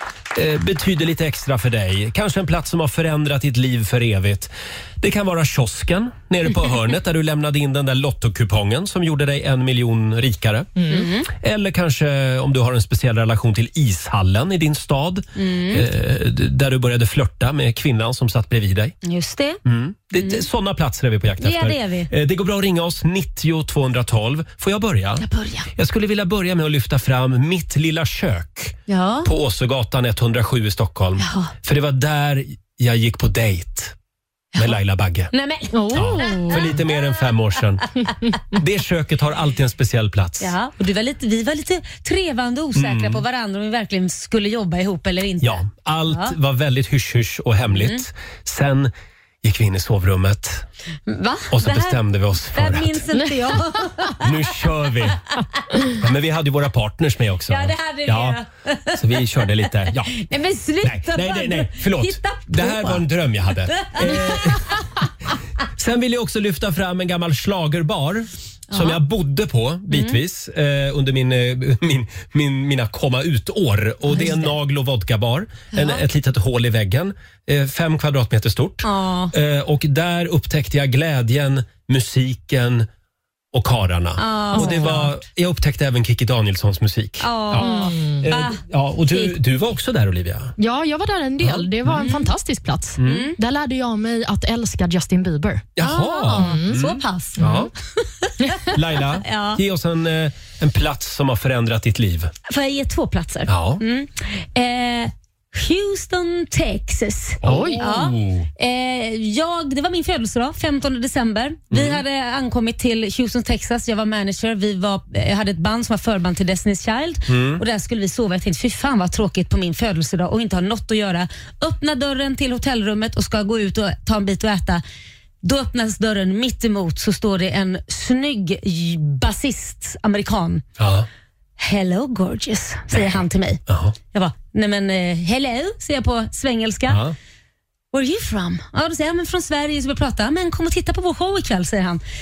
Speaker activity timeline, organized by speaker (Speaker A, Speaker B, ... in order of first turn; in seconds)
Speaker A: 0.3-10.7, 11.3-18.9, 19.6-33.9, 34.6-35.3, 35.9-37.9, 38.5-40.5, 42.8-43.2, 45.4-50.6, 51.5-53.0, 54.2-55.2, 56.0-58.4, 58.9-60.1, 60.8-64.6, 65.8-82.9, 83.5-90.5, 91.4-91.7, 93.0-93.3, 95.8-97.7, 98.7-102.3, 103.5-103.8, 107.4-108.5, 111.7-112.0, 117.3-117.6, 130.8-131.1, 133.7-133.9, 136.9-137.2
Speaker B: 10.8-11.1, 35.7-36.6, 84.5-85.1, 87.6-88.2, 90.6-95.7, 96.3-96.8, 97.4-97.7, 107.5-107.8
Speaker C: 10.9-11.3, 15.4-15.9, 19.0-19.6, 20.2-20.5, 21.4-22.1, 25.2-25.7, 28.9-29.3, 31.2-31.5, 35.3-36.9, 40.4-46.3, 47.7-48.0, 51.1-52.0, 52.5-54.4, 57.5-59.1, 60.1-63.1, 63.7-64.6, 68.7-69.0, 69.9-70.2, 74.1-74.5, 75.8-76.0, 78.8-79.3, 84.2-85.0, 87.2-89.4, 93.0-93.4, 95.8-97.5, 98.2-99.6, 102.5-124.8, 125.4-130.6, 131.6-133.6, 134.1-137.0, 137.9-142.0